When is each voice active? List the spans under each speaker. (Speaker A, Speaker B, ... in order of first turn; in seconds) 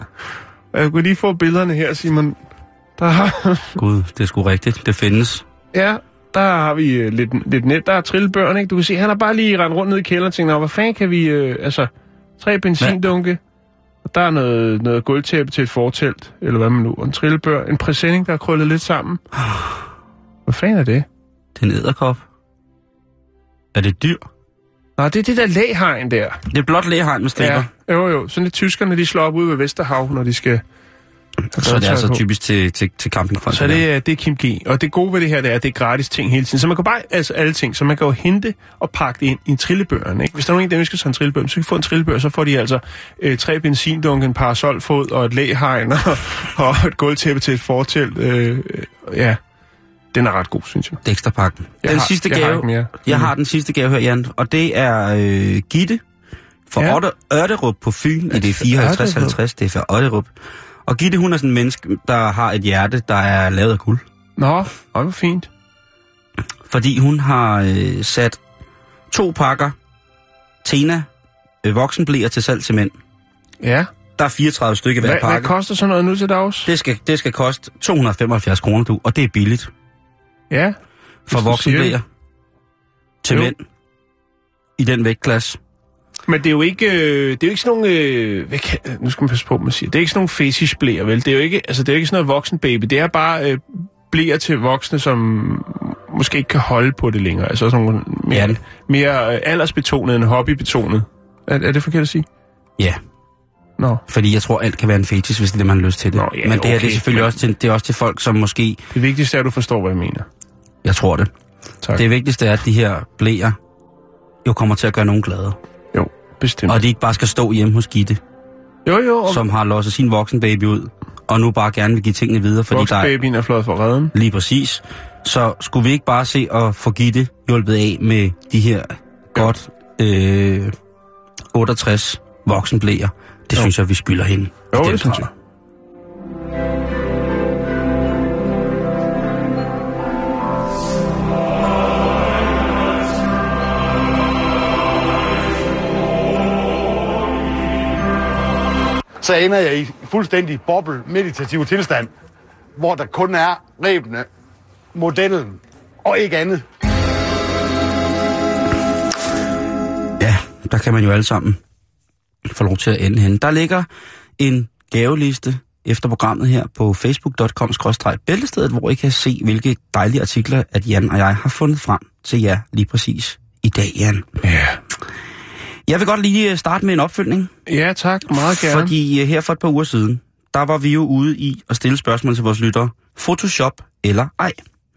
Speaker A: 0.7-2.4, 3.0-3.8, 5.7-13.4, 14.0-19.2, 20.5-21.1, 25.0-26.4, 27.4-30.6, 31.5-32.2, 33.5-49.4, 50.1-51.0, 51.8-53.3, 58.4-59.4, 64.4-65.5, 73.6-73.9, 75.0-76.7, 80.5-80.8, 81.3-82.0, 86.3-102.2, 103.8-104.0, 106.1-107.3, 108.9-110.3, 115.9-116.8, 118.8-119.5, 122.7-124.1, 134.7-135.3, 174.4-174.8, 177.7-178.9
Speaker B: 3.8-5.4, 21.6-22.2, 23.7-24.2, 26.5-27.7, 31.6-33.8, 51.0-56.0, 56.7-60.3, 60.9-64.0, 66.7-68.4, 69.1-69.8, 70.6-71.1, 71.6-72.9, 74.2-75.5, 76.7-79.7, 81.2-82.0, 83.2-83.6, 84.8-85.6, 98.3-98.6, 104.1-108.8, 110.8-111.3, 111.9-113.6, 114.4-115.6, 116.7-118.2, 119.2-123.2, 124.1-130.7, 131.5-135.3, 160.2-161.6, 162.4-163.9, 164.4-174.3, 175.9-177.5, 178.5-184.6
Speaker C: 149.2-152.1, 152.8-154.3, 154.9-156.6